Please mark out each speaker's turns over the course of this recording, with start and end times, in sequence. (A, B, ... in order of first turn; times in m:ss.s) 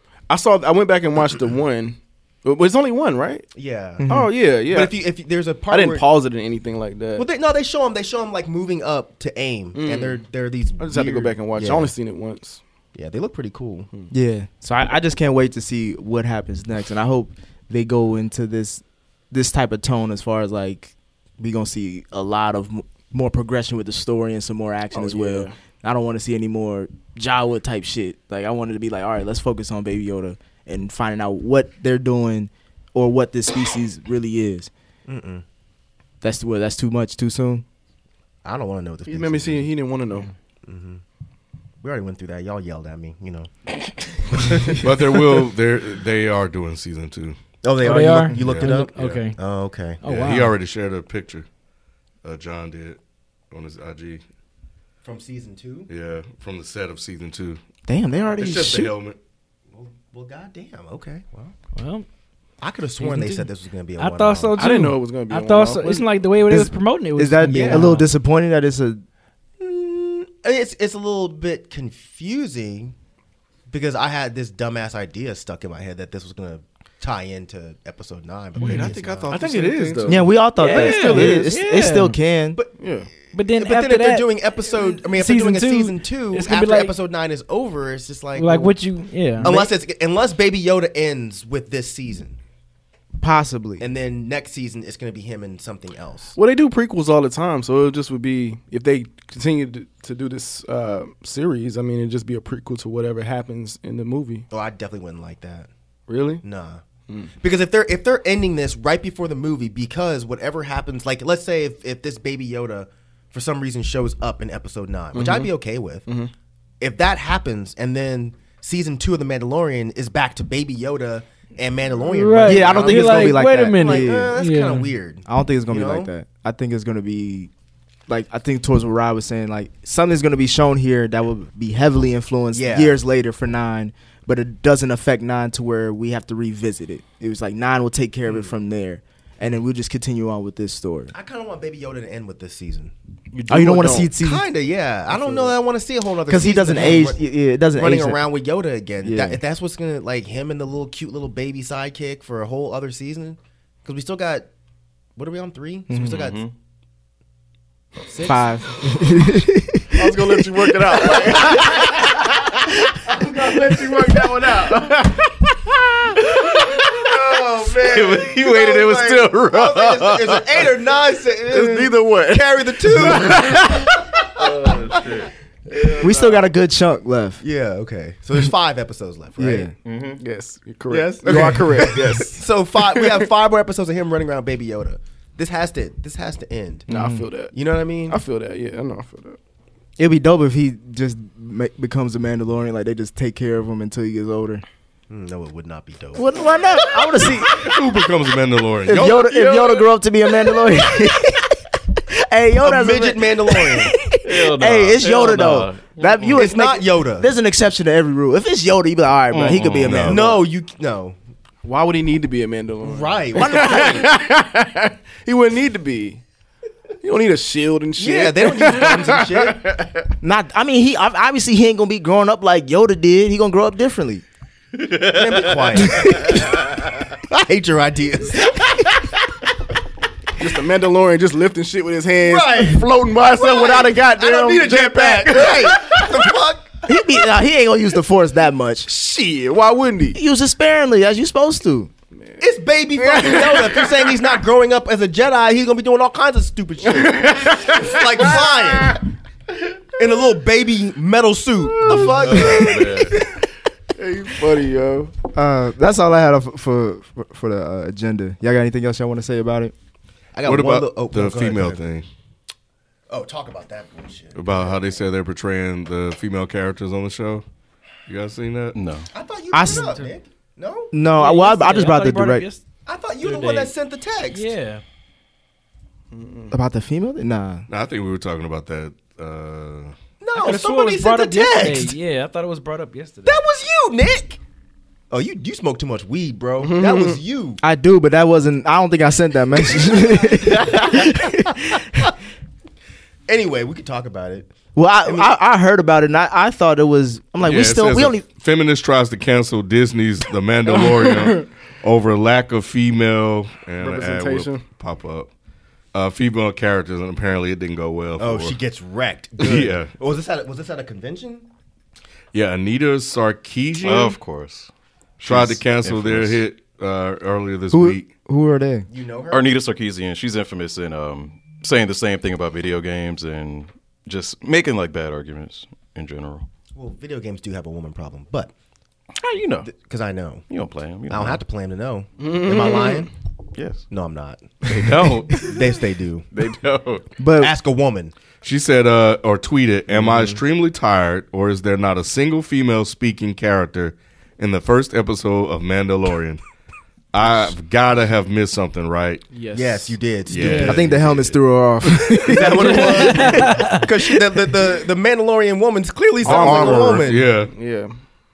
0:00.3-0:03.5 A
0:03.6-0:04.0 B
0:04.0-0:04.3 C
0:04.1-0:04.9 A
0:04.7-0:06.0 B
0:05.7-0:07.3 A
0:07.2-0:11.9 B
0:09.7-0:10.2 A
0:10.8-0:12.6 A
0:12.9-0:13.9 B
0:14.1-0:34.7 C
0:24.9-0:25.5 A
0:35.0-0:35.4 B
0:36.2-0:37.6 C
0:38.4-0:39.7 B
0:39.1-0:40.3 A
0:40.6-0:41.0 B
0:41.8-0:43.5 B
0:44.1-0:44.9 B
0:44.7-0:47.4 D
0:47.6-0:50.0 B
0:47.8-0:49.4 E
0:48.2-0:49.2 D
0:50.0-0:50.5 E
0:50.0-0:51.5 D
0:52.2-0:53.0 D
0:53.5-0:54.2 D
0:55.0-0:55.9 B
0:55.9-0:57.6 D
0:57.8-0:58.9 C
0:58.4-0:59.2 D
0:59.7-1:01.5 B
1:01.7-1:02.0 E
1:02.6-1:04.6 B
1:03.0-1:08.1 E
1:04.6-1:06.1 A
1:06.5-1:09.0 C
1:07.5-1:07.9 B
1:09.6-1:12.9 B
1:13.7-1:20.1 B
1:18.6-1:19.4 D
1:18.6-1:19.2 C
1:18.6-1:21.5 A
1:20.0-1:22.6 C
1:20.5-1:22.2 E
1:22.8-1:23.1 A
1:23.3-1:24.3 E
1:23.3-1:28.7 B
1:24.8-1:26.9 E
1:28.4-1:29.7 E
1:29.4-1:32.4 B
1:33.2-1:33.8 C
1:33.8-1:36.4 B
1:36.4-1:44.4 A
1:44.5-1:45.7 B
1:46.1-1:46.4 A
1:46.4-1:46.8 B
1:47.4-1:56.0 B
1:55.1-1:55.5 A
1:56.0-1:56.3 A
1:56.8-2:06.1 B
2:02.1-2:04.9 E
2:02.4-2:04.3 C
2:05.2-2:07.5 C
2:08.1-2:21.1 C
2:12.5-2:13.0 B
2:18.2-2:18.5 B
2:21.1-2:22.9 B
2:23.3-2:24.1 A
2:23.5-2:24.4 C
2:24.2-2:34.5 B
2:25.1-2:25.5 A
2:26.3-2:28.2 C
2:29.0-2:29.4 C
2:35.2-2:36.4 B
2:35.9-2:36.2 C
2:35.9-2:36.5 F
2:38.2-2:41.9 C
2:39.9-2:45.3 A
2:46.8-2:55.3 B
2:47.8-2:49.5 F
2:48.2-2:50.0 A
2:51.5-2:53.7 A
2:54.4-2:55.3 F
2:55.8-2:56.3 A
2:56.0-2:57.4 C
2:57.4-2:59.7 B
2:59.4-2:59.7 C
2:59.8-3:00.2 F
3:00.2-3:03.2 A
3:00.9-3:06.9 B
3:06.9-3:07.6 A
3:06.9-3:07.2 C
3:07.5-3:08.2 B
3:08.1-3:09.4 A
3:10.0-3:14.6 C
3:15.1-3:17.0 B
3:16.1-3:17.7 C
3:17.5-3:19.1 D
3:18.8-3:30.4 C
3:18.9-3:19.2 B
3:19.2-3:19.8 A
3:22.6-3:23.9 B
3:24.2-3:26.5 F
3:26.3-3:27.3 B
3:29.3-3:30.0 F
3:29.8-3:30.2 D
3:30.0-3:31.2 B
3:31.6-3:36.2 A
3:32.8-3:34.1 B
3:33.3-3:34.0 C
3:37.0-3:39.9 A
3:38.0-3:39.6 B
3:40.2-3:44.2 C
3:44.8-3:45.4 F
3:45.1-3:46.5 B
3:45.8-3:46.5 C
3:46.1-3:46.5 F
3:47.3-3:48.9 B
3:50.4-3:56.3 A
3:52.2-3:52.8 B
3:53.3-3:56.9 B
3:56.8-3:58.9 C
3:58.9-4:00.2 A
4:00.1-4:01.9 C
4:02.2-4:02.4 A
4:02.4-4:09.0 B
4:03.0-4:04.2 A
4:06.8-4:09.0 A
4:10.0-4:12.8 B
4:11.8-4:12.7 A
4:12.2-4:13.2 F
4:12.3-4:12.9 C
4:14.0-4:15.1 A
4:15.3-4:19.7 C
4:20.3-4:21.8 B
4:20.4-4:22.0 D
4:23.1-4:24.8 B
4:24.4-4:27.4 D
4:28.1-4:28.8 D
4:28.7-4:29.1 F
4:29.1-4:30.9 B
4:29.5-4:30.0 C
4:29.6-4:30.1 E
4:30.9-4:32.4 C
4:31.1-4:32.6 E
4:32.8-4:34.5 B
4:33.2-4:33.7 E
4:34.3-4:34.8 E
4:36.1-4:36.5 A
4:36.5-4:37.7 C
4:37.7-4:39.9 D
4:40.2-4:41.9 B
4:40.3-4:43.4 E
4:43.2-4:44.4 B
4:45.1-4:47.6 B
4:46.6-4:47.2 A
4:47.6-4:52.1 C
4:50.1-4:51.1 B
4:53.3-4:54.5 B
4:54.7-4:58.2 C
4:55.0-4:55.3 B
4:57.4-5:05.3 D
5:00.7-5:01.4 A
5:03.8-5:04.6 A
5:05.9-5:08.6 D
5:08.2-5:11.4 B
5:09.4-5:09.9 D
5:12.3-5:14.2 D
5:13.8-5:14.7 F
5:15.2-5:16.4 F
5:15.2-5:18.1 D
5:17.7-5:18.9 C
5:18.9-5:19.5 B
5:19.3-5:26.4 F
5:26.7-5:28.5 B
5:29.2-5:29.7 F
5:29.6-5:30.4 B
5:30.5-5:31.4 F
5:31.1-5:33.1 B
5:32.2-5:33.1 A
5:33.6-5:33.8 F
5:33.9-5:34.4 B
5:34.6-5:35.7 F
5:35.4-5:36.2 B
5:36.3-5:37.0 F
5:37.2-5:37.5 C
5:37.4-5:38.1 B
5:38.4-5:46.4 D
5:40.0-5:40.4 B
5:47.1-5:49.2 D
5:49.3-5:49.8 A
5:49.5-5:50.9 B
5:50.2-5:51.4 D
5:50.4-5:50.8 E
5:50.5-5:54.4 C
5:52.2-5:57.3 B
5:52.6-5:53.8 E
5:56.2-5:57.0 C
5:56.2-5:57.5 D
5:56.6-5:56.8 A
5:57.5-5:57.9 A